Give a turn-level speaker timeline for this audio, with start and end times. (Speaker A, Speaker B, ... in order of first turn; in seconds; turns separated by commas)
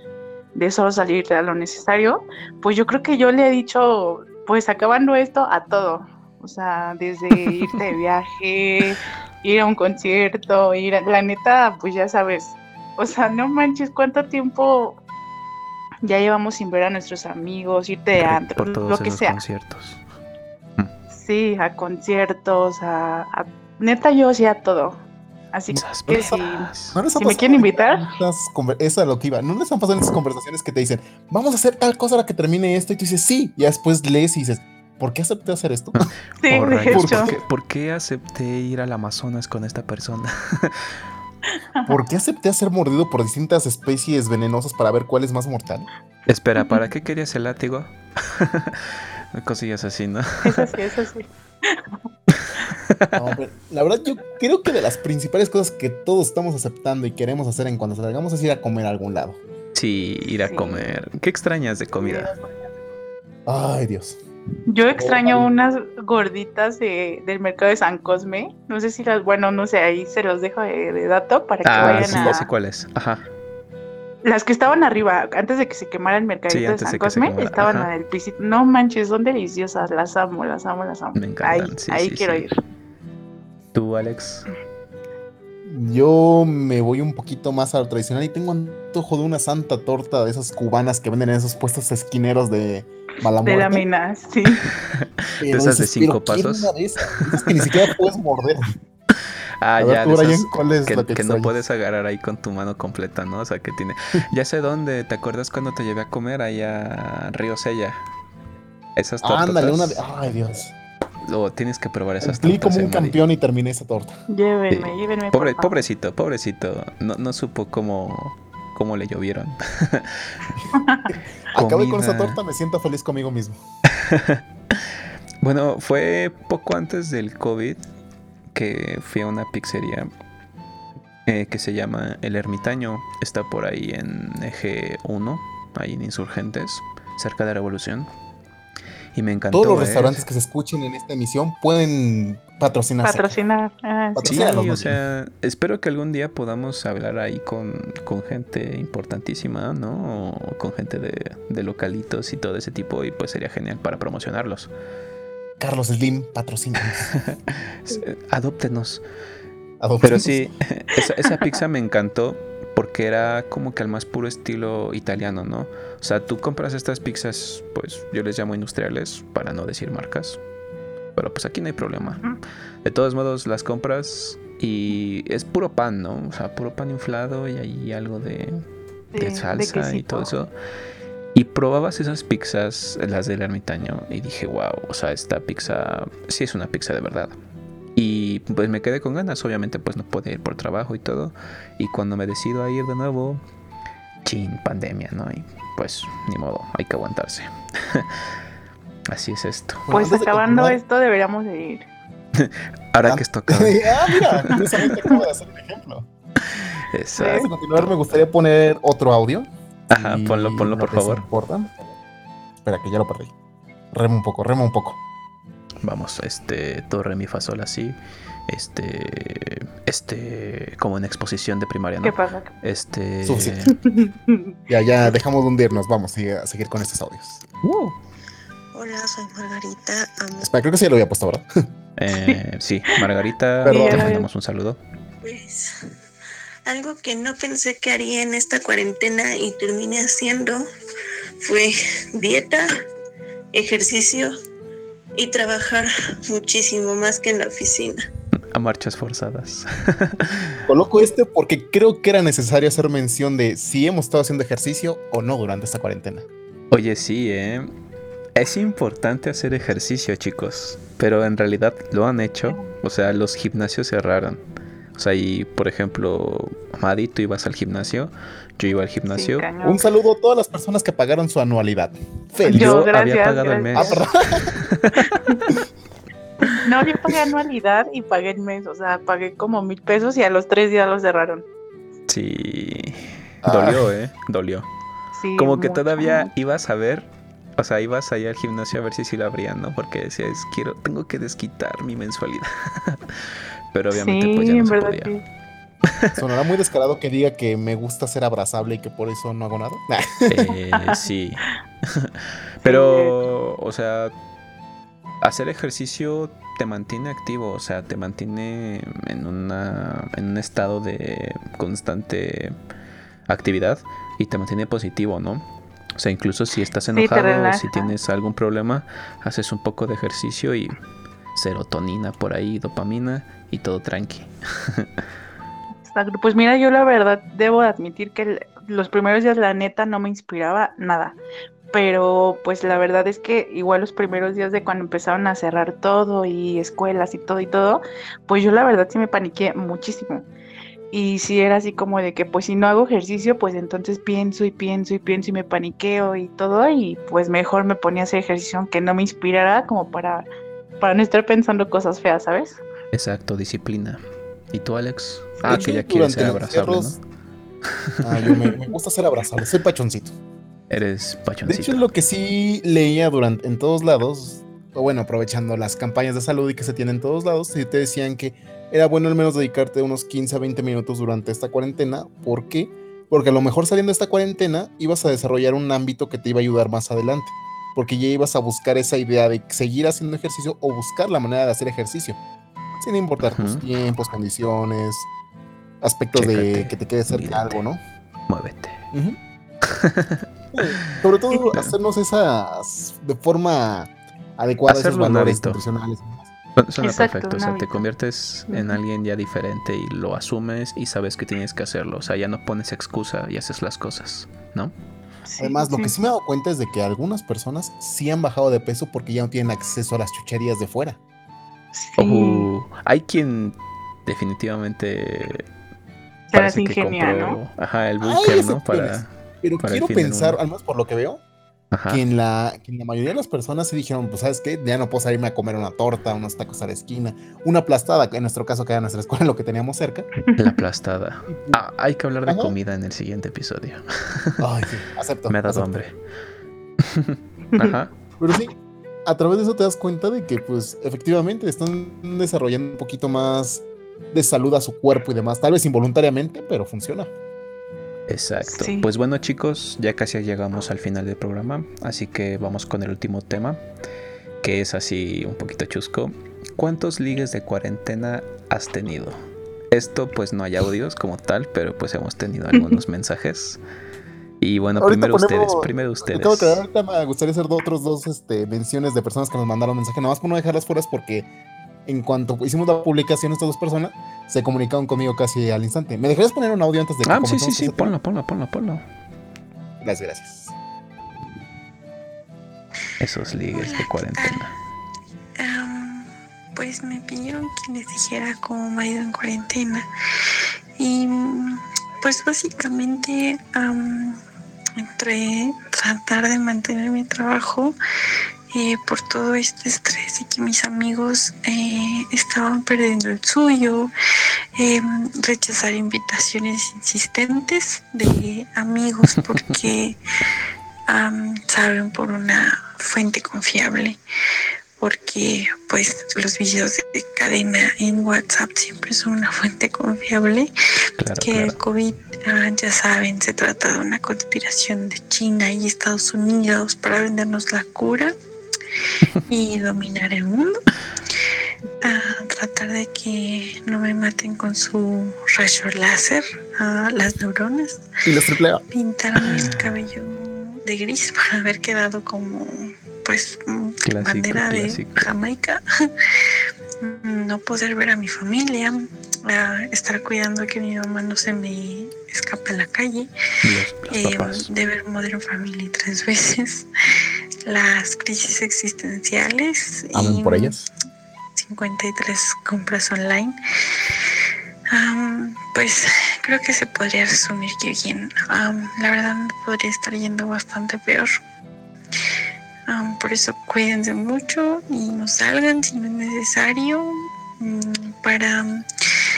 Speaker A: 0.6-15.0, Speaker B: 7.4-7.8, Speaker A: 16.0-19.4, Speaker B: 18.2-20.0, Speaker A: 21.1-25.0, Speaker A: 25.5-28.1, Speaker B: 25.7-27.0, Speaker C: 26.9-36.0, Speaker B: 36.0-40.9, Speaker A: 36.4-37.3, Speaker C: 36.9-37.4, Speaker C: 41.9-45.9, Speaker B: 46.3-50.7, Speaker A: 50.4-52.0, Speaker B: 52.3-53.2, Speaker C: 53.1-59.4, Speaker B: 59.8-62.3, Speaker A: 60.5-60.9, Speaker C: 63.5-64.2, Speaker A: 64.7-72.5, Speaker C: 65.0-65.5, Speaker B: 71.6-73.3, Speaker C: 71.8-72.4, Speaker A: 74.2-82.5, Speaker B: 76.5-77.9, Speaker B: 81.2-82.5, Speaker B: 83.7-84.5, Speaker C: 85.7-93.9, Speaker A: 93.4-94.6, Speaker B: 94.8-97.7, Speaker C: 95.4-98.6, Speaker B: 99.6-108.0, Speaker C: 99.8-101.5, Speaker B: 109.0-110.0, Speaker C: 109.2-110.7, Speaker B: 111.2-113.2, Speaker C: 112.2-114.1, Speaker A: 114.3-115.8, Speaker B: 114.7-120.4, Speaker A: 120.8-121.1, Speaker C: 121.5-123.6, Speaker B: 121.5-122.4, Speaker B: 123.9-124.9, Speaker B: 125.4-127.8, Speaker B: 128.5-130.1, Speaker B: 131.3-138.1, Speaker B: 139.1-140.2, Speaker C: 139.5-143.4, Speaker A: 143.0-144.6, Speaker C: 144.2-145.0, Speaker B: 144.3-154.7, Speaker C: 155.6-157.1, Speaker B: 157.1-159.0, Speaker C: 159.8-160.5, Speaker B: 160.0-170.4, Speaker B: 171.2-172.2, Speaker A: 172.0-172.4, Speaker B: 172.8-178.6, Speaker A: 179.1-180.3, Speaker B: 179.2-180.5, Speaker B: 181.3-187.4, Speaker B: 187.9-193.4, Speaker B: 194.2-198.2, Speaker B: 199.1-199.9, Speaker C: 199.9-200.8, Speaker A: 199.9-201.9, Speaker B: 202.3-204.9, Speaker C: 203.1-206.1, Speaker B: 206.4-208.3, Speaker A: 207.2-207.5, Speaker C: 207.2-211.7, Speaker B: 209.9-211.3, Speaker C: 212.6-213.3, Speaker C: 213.9-215.0, Speaker B: 215.8-218.0, Speaker B: 218.5-223.8, Speaker A: 222.0-222.5, Speaker C: 223.2-223.6, Speaker A: 223.8-224.5, Speaker C: 224.7-227.4, Speaker B: 227.6-228.0, Speaker D: 228.7-230.5, Speaker C: 230.4-231.5, Speaker B: 232.0-234.8, Speaker A: 232.1-232.4, Speaker A: 233.6-234.3, Speaker C: 233.7-234.1, Speaker D: 235.2-235.7, Speaker D: 236.7-240.6, Speaker D: 241.4-242.7, Speaker D: 243.5-244.3, Speaker D: 245.2-248.0, Speaker B: 248.5-250.6, Speaker C: 250.7-256.3, Speaker B: 256.7-257.7, Speaker B: 258.4-264.4, Speaker B: 264.9-269.5, Speaker A: 269.1-269.8, Speaker C: 269.6-272.7, Speaker A: 272.5-274.0, Speaker B: 272.5-275.2, Speaker C: 273.8-274.5, Speaker A: 275.1-275.5, Speaker A: 276.5-281.5, Speaker B: 282.1-284.7, Speaker C: 283.4-283.9, Speaker A: 285.2-286.3, Speaker B: 285.4-295.1, Speaker A: 293.9-295.2, Speaker C: 296.1-300.5, Speaker B: 300.3-304.1, Speaker A: 302.6-303.2, Speaker B: 305.2-312.6, Speaker B: 313.3-315.4, Speaker B: 316.0-320.8, Speaker A: 316.9-317.9, Speaker B: 321.3-324.9, Speaker A: 325.9-331.2, Speaker A: 331.7-340.3, Speaker A: 340.9-350.3, Speaker A: 350.8-352.6, Speaker B: 352.9-357.0, Speaker A: 355.4-355.7, Speaker C: 355.4-357.0, Speaker C: 358.0-360.1, Speaker B: 360.7-361.8, Speaker C: 361.5-382.2, Speaker C: 382.8-385.1, Speaker B: 383.2-383.6, Speaker C: 385.8-387.8, Speaker B: 386.1-387.6, Speaker B: 388.3-388.8, Speaker C: 388.9-389.2, Speaker B: 389.7-391.0, Speaker C: 390.5-396.3, Speaker B: 394.7-395.6, Speaker B: 396.6-404.7, Speaker A: 396.8-397.9, Speaker A: 398.5-398.8, Speaker A: 405.3-405.9, Speaker C: 405.4-411.0, Speaker A: 411.7-412.5, Speaker B: 412.0-415.5, Speaker A: 416.3-417.4, Speaker B: 416.3-420.4, Speaker C: 418.0-421.2, Speaker B: 421.7-422.0, Speaker C: 421.9-430.1, Speaker A: 430.2-430.5, Speaker B: 430.4-434.4, Speaker C: 431.3-431.6, Speaker C: 432.3-432.6, Speaker C: 434.4-435.7, Speaker B: 435.3-436.0, Speaker B: 436.8-437.9, Speaker C: 438.2-447.1, Speaker B: 448.1-453.6, Speaker A: 448.4-448.9, Speaker B: 454.4-459.2, Speaker B: 459.7-463.6, Speaker B: 464.4-466.6, Speaker C: 464.8-471.3, Speaker C: 471.9-477.9, Speaker B: 477.1-478.9, Speaker C: 479.8-480.5, Speaker B: 483.0-484.6, Speaker D: 483.5-484.4, Speaker D: 485.4-489.9, Speaker D: 490.8-494.2, Speaker D: 494.8-497.8, Speaker D: 498.5-503.9, Speaker D: 504.6-510.0, Speaker D: 510.9-514.0, Speaker D: 514.8-520.5, Speaker B: 521.0-521.6, Speaker D: 521.2-528.1, Speaker D: 529.3-530.6, Speaker D: 531.8-537.9, Speaker C: 538.0-538.6, Speaker D: 538.7-545.6, Speaker B: 539.2-539.6, Speaker B: 543.9-545.1, Speaker D: 546.8-553.1, Speaker B: 553.4-554.5, Speaker D: 553.9-556.7, Speaker D: 557.5-560.6, Speaker C: 559.9-560.7, Speaker D: 561.4-563.4, Speaker D: 564.7-571.2, Speaker D: 572.7-578.6